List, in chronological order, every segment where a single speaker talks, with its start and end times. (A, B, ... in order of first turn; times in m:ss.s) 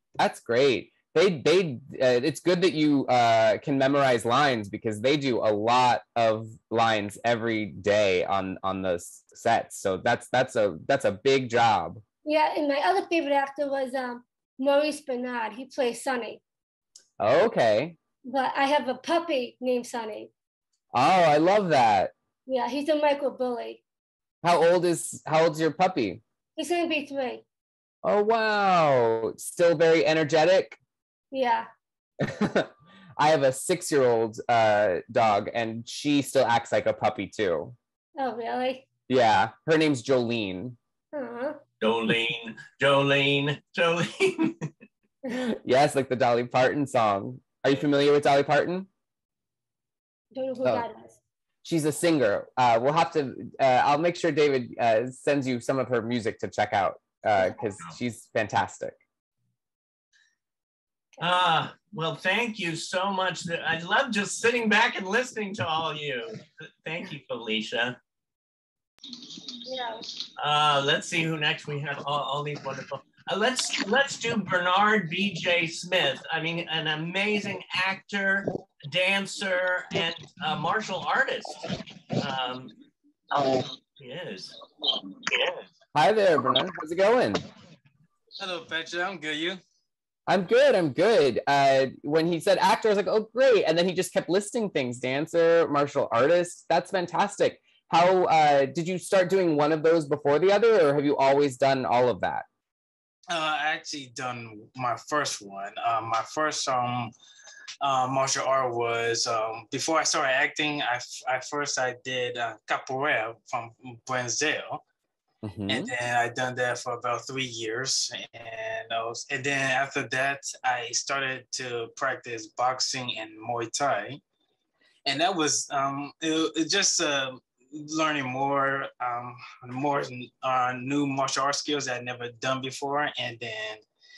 0:00.2-0:12.0 A
0:12.2-0:16.4 B
0:17.2-0:18.0 A
0:18.2-0:20.3 B
0:20.9-0:22.1 A
0:22.5-0:23.8 B
0:24.4-0:26.2 A
0:26.6-0:27.4 B
0:28.0-0:30.8 A
0:31.3-0:31.7 B
0:32.2-0:37.8 A
0:38.2-0:38.8 B
0:39.1-0:40.8 A
0:41.1-0:41.6 B
0:41.8-0:44.7 C
0:45.3-0:48.9 A
0:50.4-0:51.2 B
0:51.6-0:59.0 A
1:01.2-1:08.0 C
1:09.6-1:10.0 B
1:10.4-1:22.7 C
1:24.0-1:24.6 C
1:25.3-1:25.6 C
1:26.0-1:27.4 A
1:28.4-1:29.6 D
1:30.3-1:42.4 A
1:43.3-1:47.1 D
1:47.8-1:54.8 D
1:55.4-1:55.9 A
1:55.7-2:04.2 D
2:05.0-2:13.8 D